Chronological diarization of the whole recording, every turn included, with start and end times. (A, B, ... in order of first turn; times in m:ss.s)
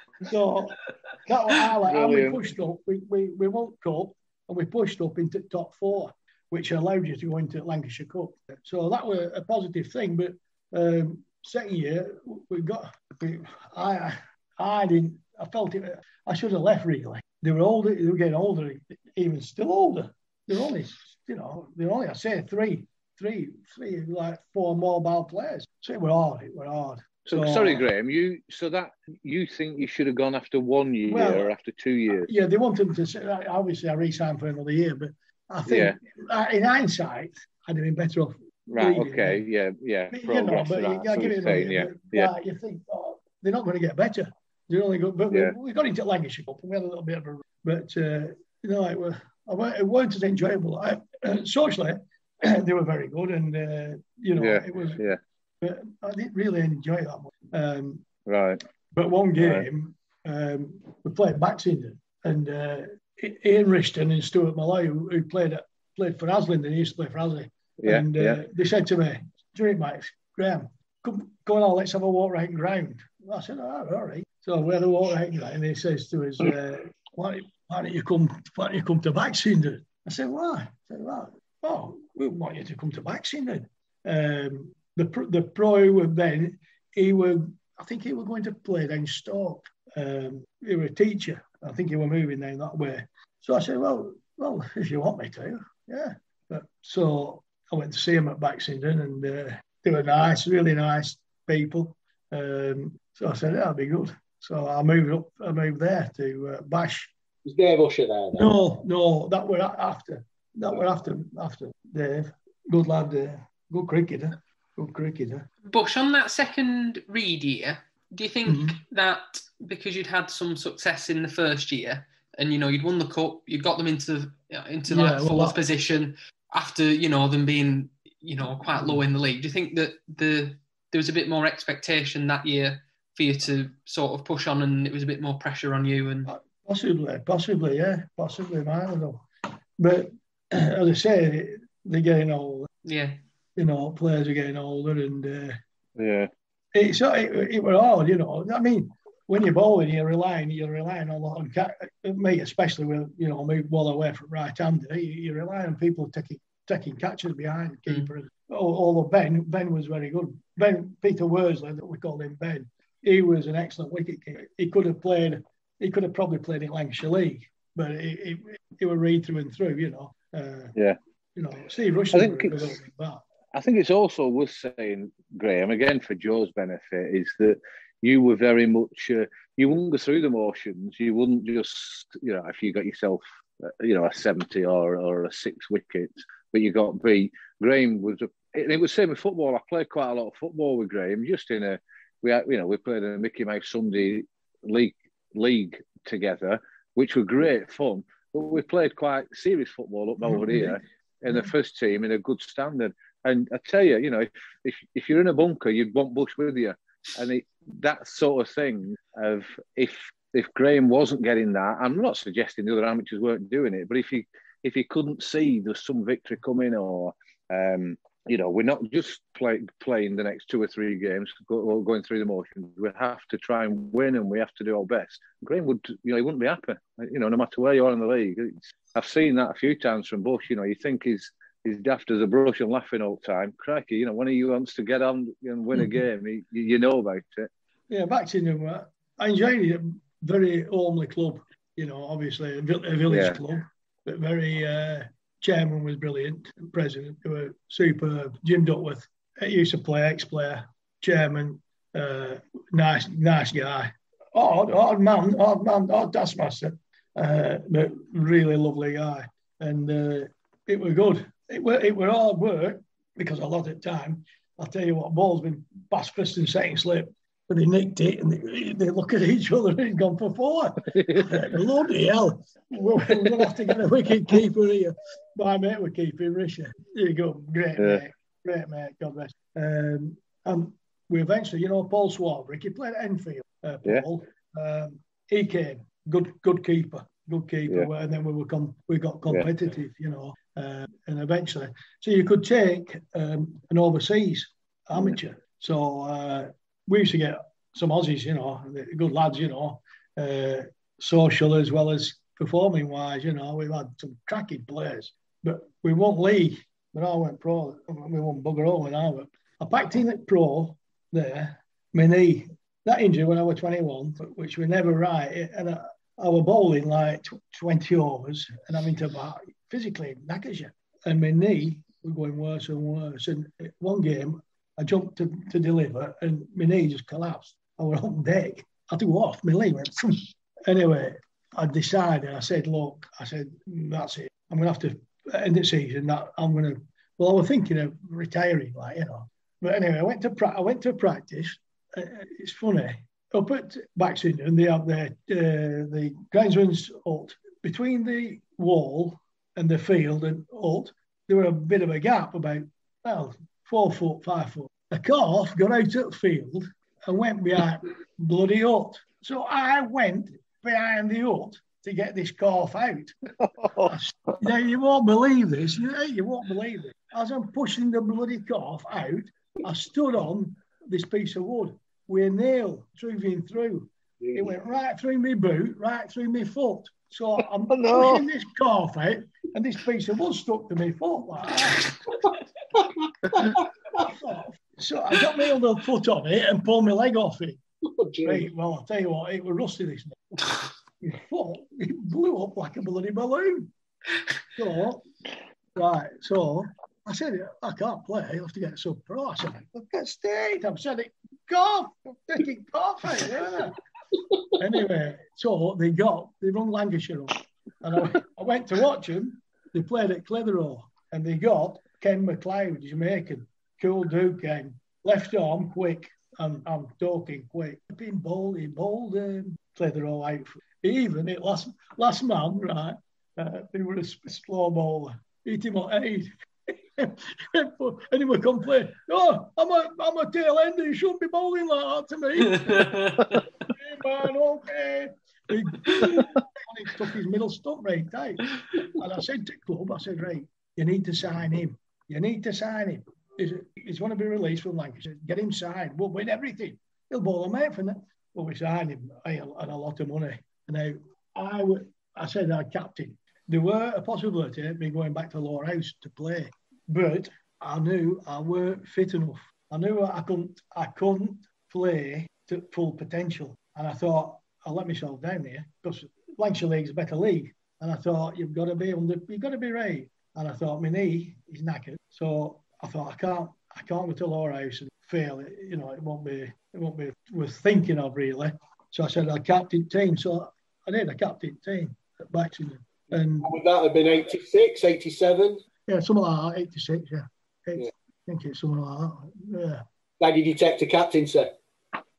0:00.2-0:27.8 A
0:01.8-0:02.4 B
0:27.3-0:32.3 B
0:31.1-0:31.5 A
0:32.1-0:39.4 A
0:35.6-0:36.0 B
0:38.7-0:42.3 B
0:40.1-0:55.0 A
0:54.4-0:55.2 B
0:55.6-0:58.0 A
0:58.2-0:58.6 B
0:58.9-1:47.1 A
0:59.4-0:59.6 B
1:07.8-1:08.4 B
1:47.4-1:48.5 C
1:48.3-1:55.5 A
1:55.7-2:16.3 D
1:58.4-1:58.8 A
2:04.9-2:05.6 A
2:08.8-2:09.0 A
2:16.2-2:19.2 A
2:19.8-2:22.7 A
2:22.8-2:23.2 D
2:23.6-2:25.6 A
2:26.0-2:26.3 B
2:26.7-2:50.7 A
2:51.4-2:53.2 A
2:52.1-2:52.7 B
2:53.5-3:57.5 B
3:20.3-3:20.7 A
3:57.9-6:03.1 A
4:03.1-4:03.4 B
4:37.8-4:38.0 B
6:03.4-6:03.9 B
6:03.8-6:21.8 A
6:14.2-6:14.4 C
6:17.7-6:18.2 B
6:23.3-6:27.6 A
6:28.0-6:28.4 C
6:28.2-6:30.2 A
6:31.0-6:33.7 A
6:34.6-6:35.0 A
6:35.8-6:43.8 A
6:44.6-7:13.0 A
7:12.5-7:13.4 D
7:13.7-8:03.5 A
8:03.4-8:05.6 C
8:05.9-8:09.8 A
8:10.2-8:11.5 C